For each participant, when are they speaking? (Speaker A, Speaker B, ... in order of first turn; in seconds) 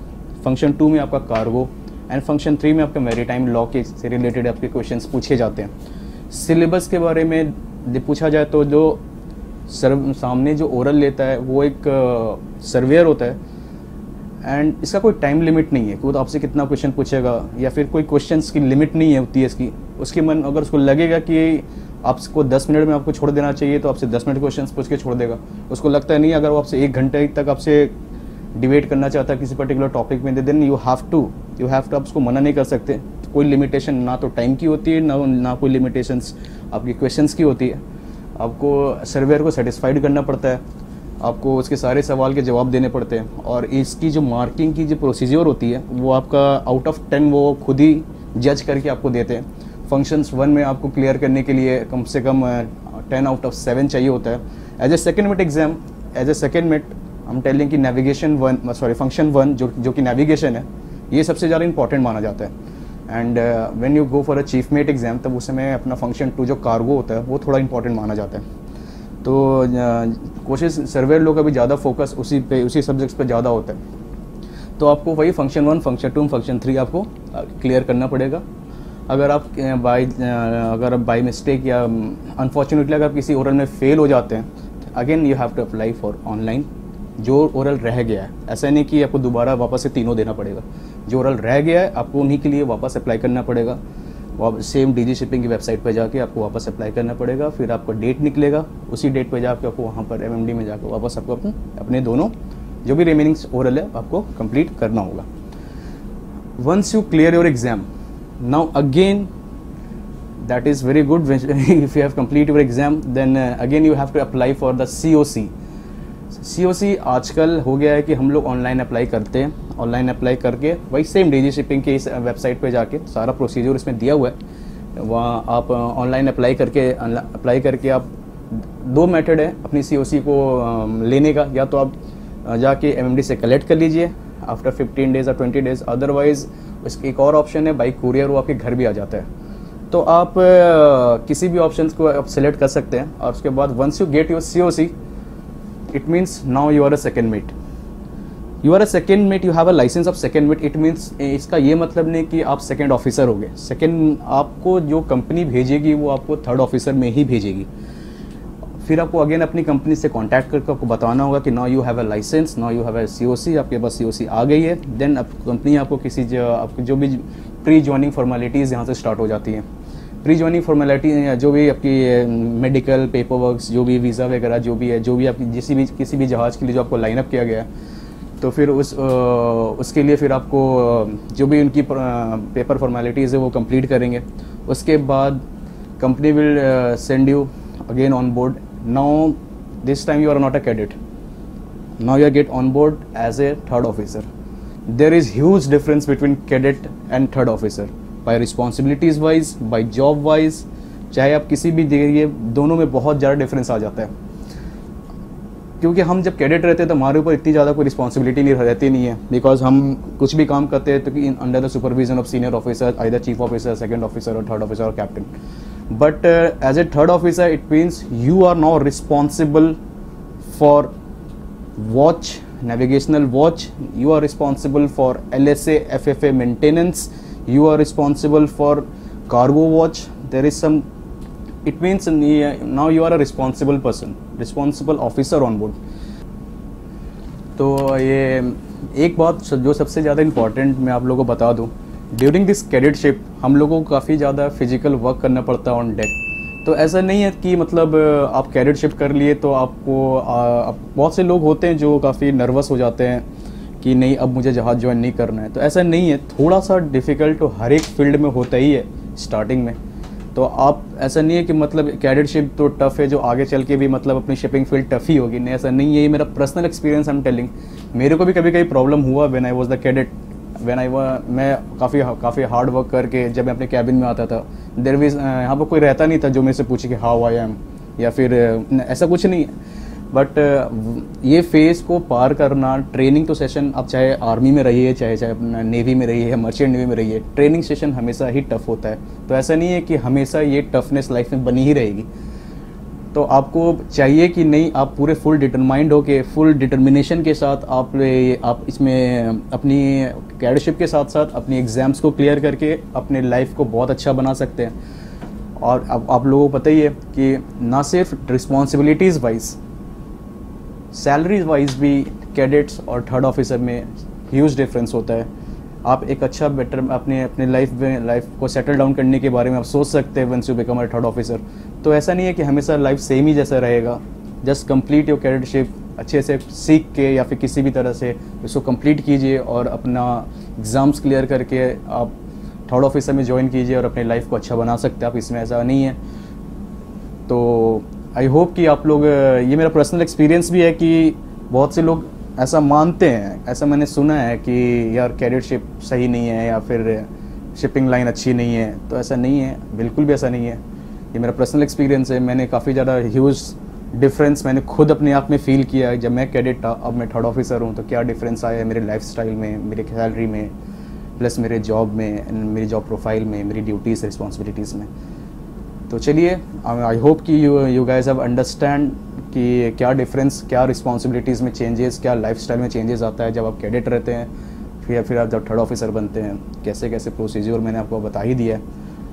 Speaker A: 0.4-5.7, 6.3-9.0, 9.7-13.4, 14.4-27.9, 28.6-37.8, 38.4-40.6, 41.2-62.5, 63.1-68.4, 69.2-73.8, 74.8-78.4, 79.1-93.8, 94.4-102.3, 102.8-105.3, 106.6-107.9, 108.4-109.3, 110.4-115.5, 116.3-124.3, 125.0-128.1, 128.8-139.3, 139.9-144.9, 145.9-147.5, 148.6-157.7, 158.8-169.6, 170.2-177.7, 178.4-185.4, 186.0-190.9, 192.0-194.2, 194.9-204.1, 205.8-215.3, 215.9-219.8, 220.4-220.9, 221.8-230.9, 231.6-235.8, 237.6-253.2, 253.8-259.8, 260.3-279.5, 280.1-292.1, 293.1-304.7, 305.6-309.6, 310.9-315.3, 315.8-332.1, 332.7-336.0, 337.3-350.6, 351.1-360.5, 361.2-364.9, 365.9-374.3, 374.8-378.6